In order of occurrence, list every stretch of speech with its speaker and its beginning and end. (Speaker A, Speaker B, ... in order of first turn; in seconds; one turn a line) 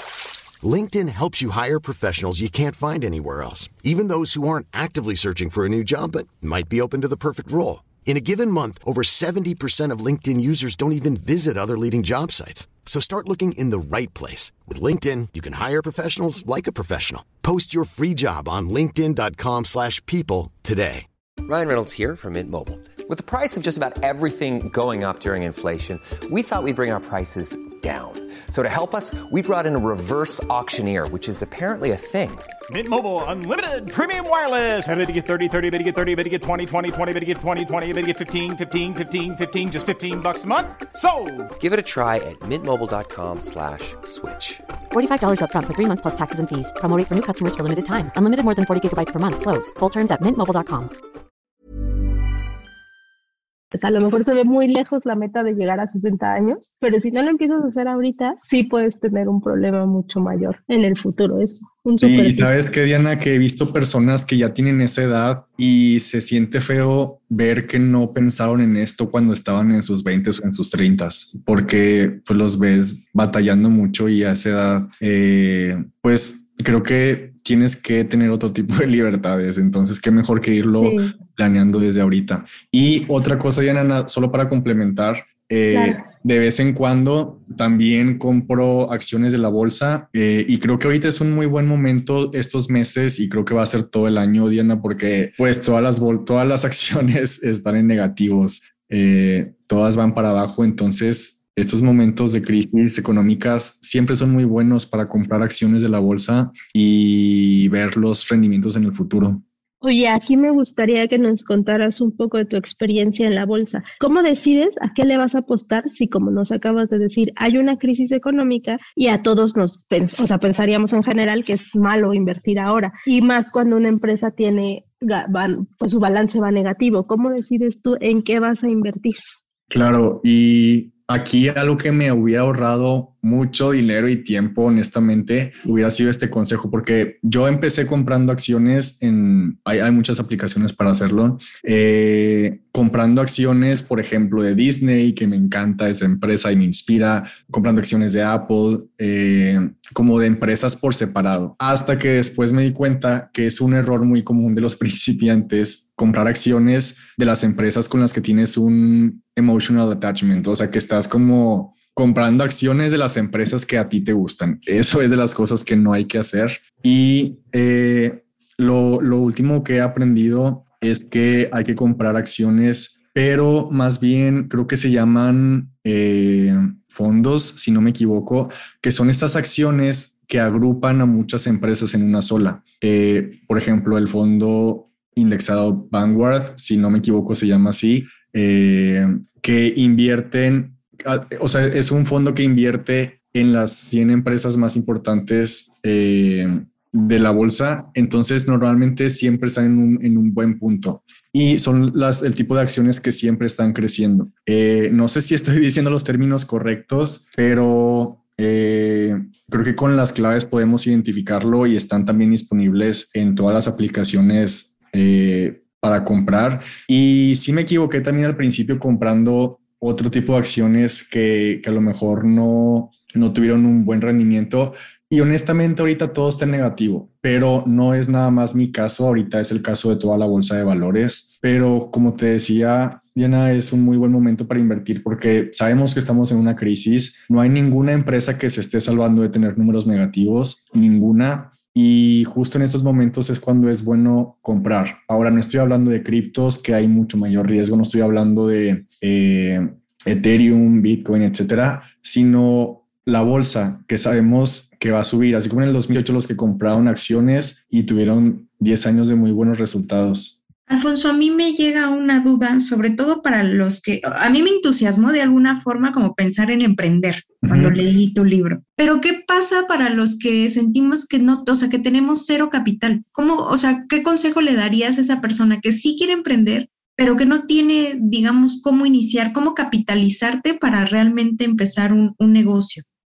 Speaker A: 0.6-21.1
Speaker B: 21.4-32.5
Speaker C: 32.7-41.5
Speaker B: 41.6-44.6
Speaker D: 44.9-50.9
Speaker E: 53.7-62.5
Speaker F: 62.0-109.4
Speaker E: 80.7-81.1
Speaker E: 85.7-86.0
Speaker E: 109.8-129.2
Speaker F: 129.7-260.4
Speaker G: 260.7-282.8
Speaker F: 267.4-267.8